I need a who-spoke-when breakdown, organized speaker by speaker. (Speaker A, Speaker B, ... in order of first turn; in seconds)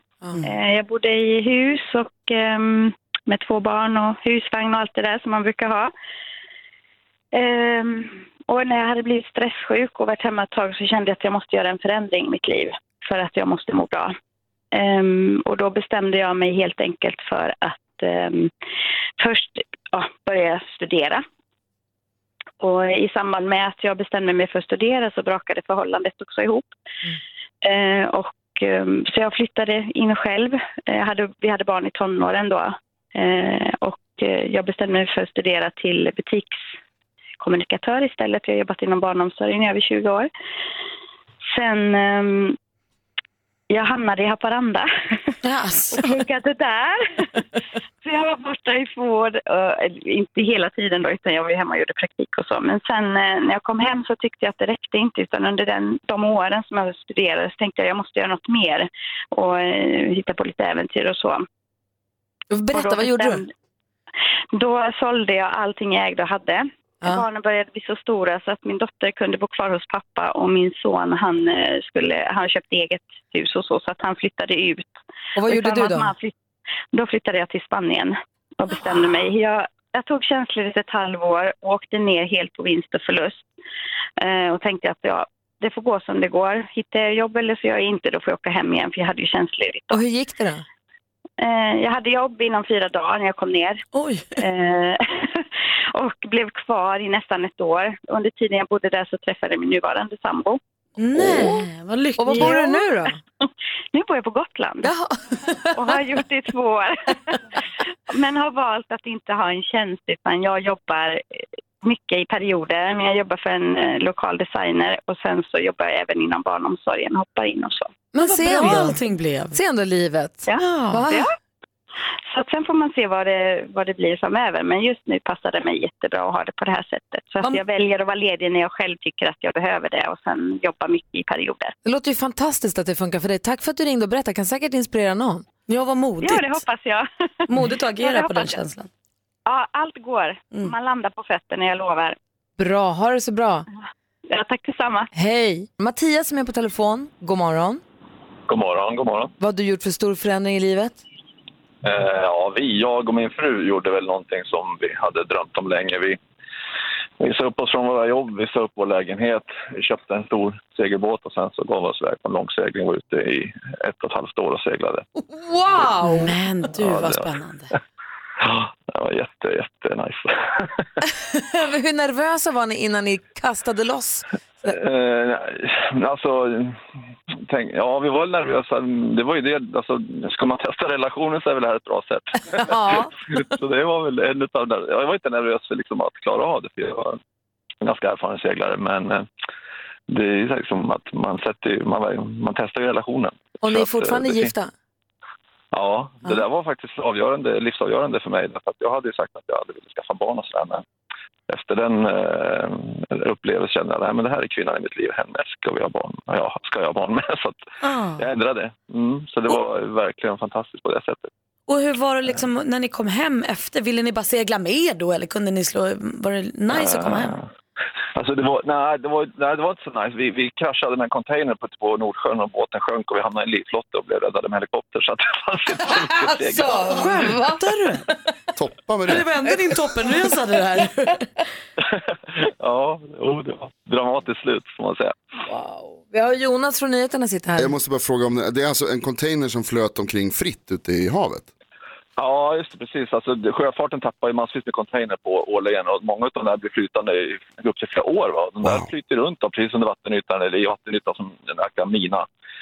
Speaker A: 0.4-5.9, 7.3-14.2, 14.7-18.5, 19.2-21.2, 22.6-26.7, 27.6-36.5, 37.4-40.3, 41.5-42.6, 43.7-44.9, 45.9-47.4, 48.0-61.5, 62.7-63.5, 64.5-74.9, 75.5-76.3, 76.9-83.4, 84.2-90.0, 91.4-93.8, 94.4-100.6, 102.3-102.7, 103.9-104.9, 105.7-107.4, 108.1-111.2, 111.8-117.9, 120.5-121.3, 122.3-131.7, 136.2-137.1, 138.0-138.6, 139.5-142.2, 144.3-145.1
Speaker B: 45.4-46.1, 93.9-94.4, 101.0-102.7, 118.2-119.6, 120.6-121.0, 135.7-136.6, 137.5-138.9, 166.0-167.7, 207.8-208.3, 211.7-217.4, 227.6-228.0, 229.1-231.3
Speaker C: 62.5-63.4, 75.4-76.1, 90.0-90.6, 101.2-101.6, 102.2-103.1, 118.2-119.0, 119.6-121.2, 131.9-135.4, 142.6-143.7, 145.2-147.8, 149.4-151.0, 165.2-166.3, 171.3-174.2, 182.6-183.1, 193.6-194.7, 226.4-227.6, 235.5-237.7
Speaker D: 148.5-149.3, 151.8-156.2, 157.2-165.1, 166.8-167.3, 168.4-170.8, 174.7-176.8, 177.5-187.2, 187.8-189.3, 190.1-194.5, 195.7-200.8, 201.5-207.7, 208.2-211.3, 216.7-217.4, 218.2-227.2, 232.3-235.2, 242.2-252.3
Speaker E: 228.6-229.3, 237.6-241.5, 248.6-248.9